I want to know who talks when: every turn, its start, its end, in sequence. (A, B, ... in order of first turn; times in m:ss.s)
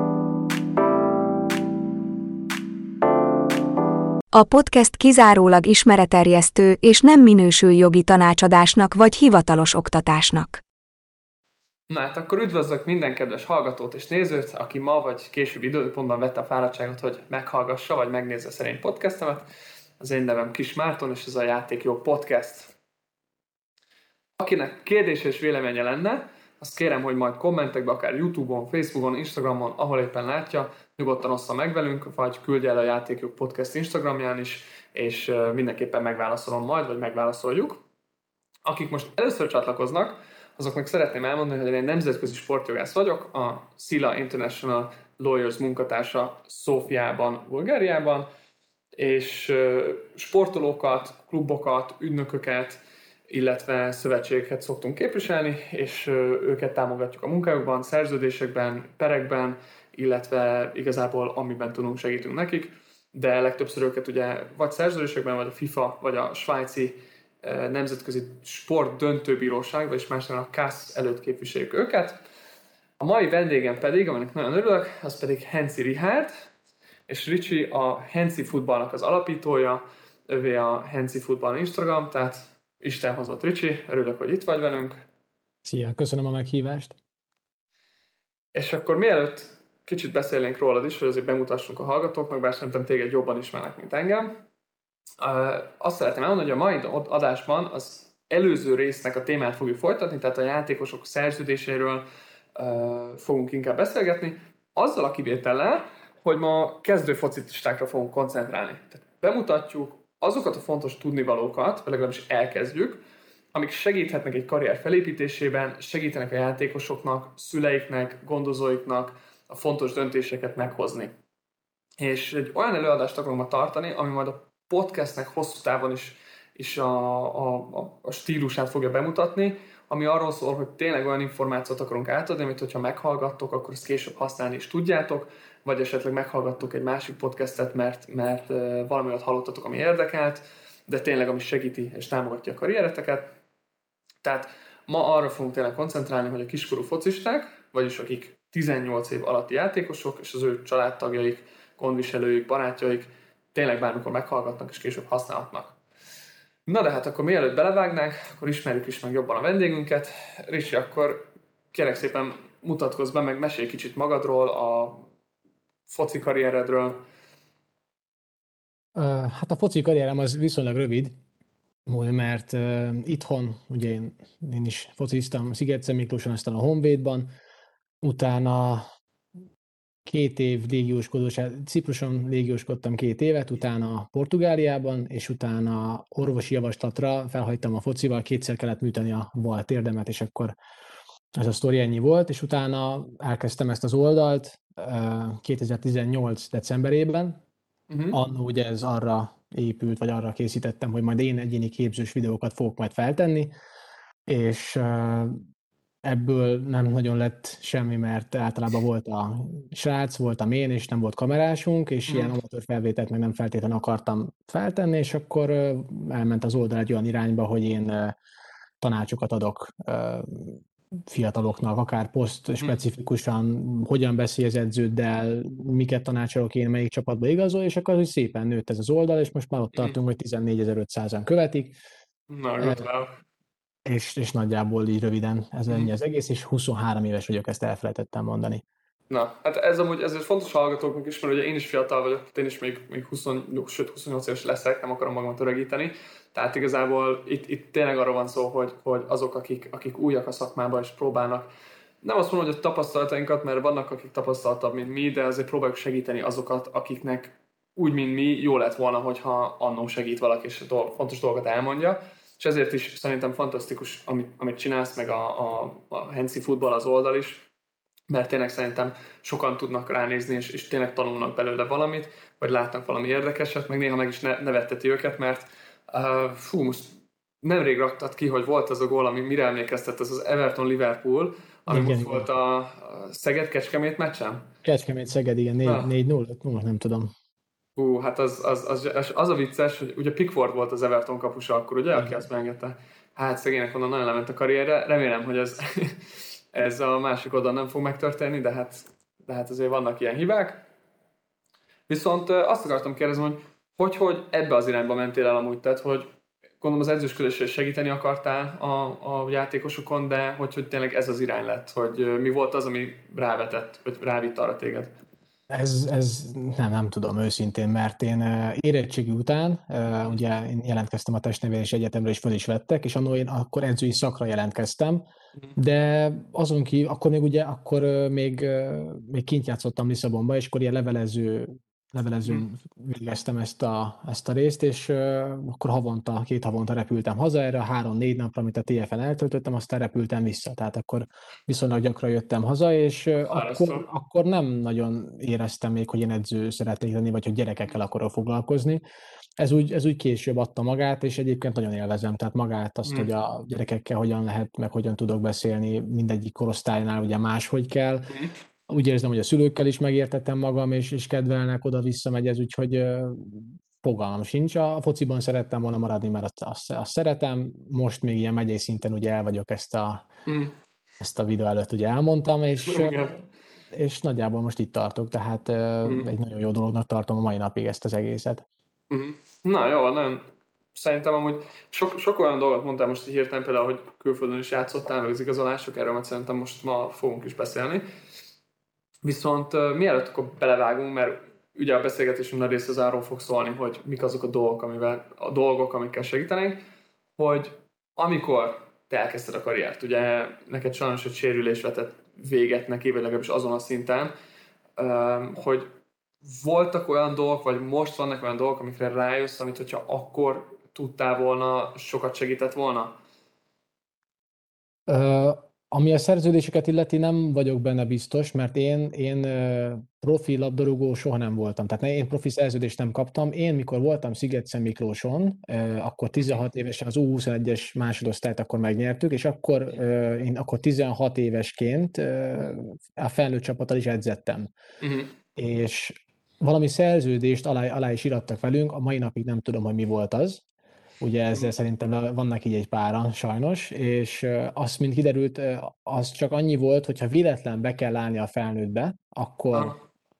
0:04.3-0:10.6 A
0:11.9-0:19.4 B
0:20.0-0:22.7 B
0:24.4-0:37.8 B
0:38.6-0:48.3 B
0:49.0-1:12.2 B
1:13.0-1:16.3 B
1:17.1-1:25.0 B
1:25.6-1:27.0 C
1:28.5-1:34.3 B
1:35.2-1:53.0 B
1:53.5-2:01.1 B
2:02.0-2:23.3 B
2:24.2-2:35.8 B
2:36.7-2:45.0 B
2:45.9-2:47.0 B
2:48.9-2:51.1 C
2:51.8-2:57.3 C
2:58.0-2:58.9 C
3:00.0-3:10.6 C
3:11.3-3:17.4 C
3:17.9-3:18.2 B
3:18.1-3:23.5 C
3:24.2-3:25.4 C
3:26.0-3:38.2 C
3:32.1-3:32.4 B
3:38.8-3:51.8 C
3:52.3-3:53.1 B
3:53.8-3:58.6 C
3:59.1-4:11.5 B
4:12.0-4:27.4 B
4:28.1-4:44.5 B
4:41.7-4:42.3 C
4:44.6-4:47.1 C
4:45.6-4:45.9 B
4:47.8-5:00.6 B
5:01.9-5:14.9 B
5:15.5-5:25.0 C
5:25.6-5:48.8 C
5:43.3-5:43.9 B
5:49.4-5:58.1 C
5:52.8-5:53.1 B
5:58.1-5:58.3 B
5:58.7-6:10.1 C
6:10.2-6:10.5 B
6:11.0-6:18.4 C
6:12.6-6:13.2 B
6:15.8-6:16.1 B
6:18.9-6:27.8 B
6:29.0-6:36.6 B
6:37.2-6:44.1 B
6:44.8-6:53.0 B
6:54.9-7:14.5 C
7:14.8-7:15.1 B
7:15.4-7:20.4 C
7:21.0-7:29.8 C
7:29.5-7:29.8 B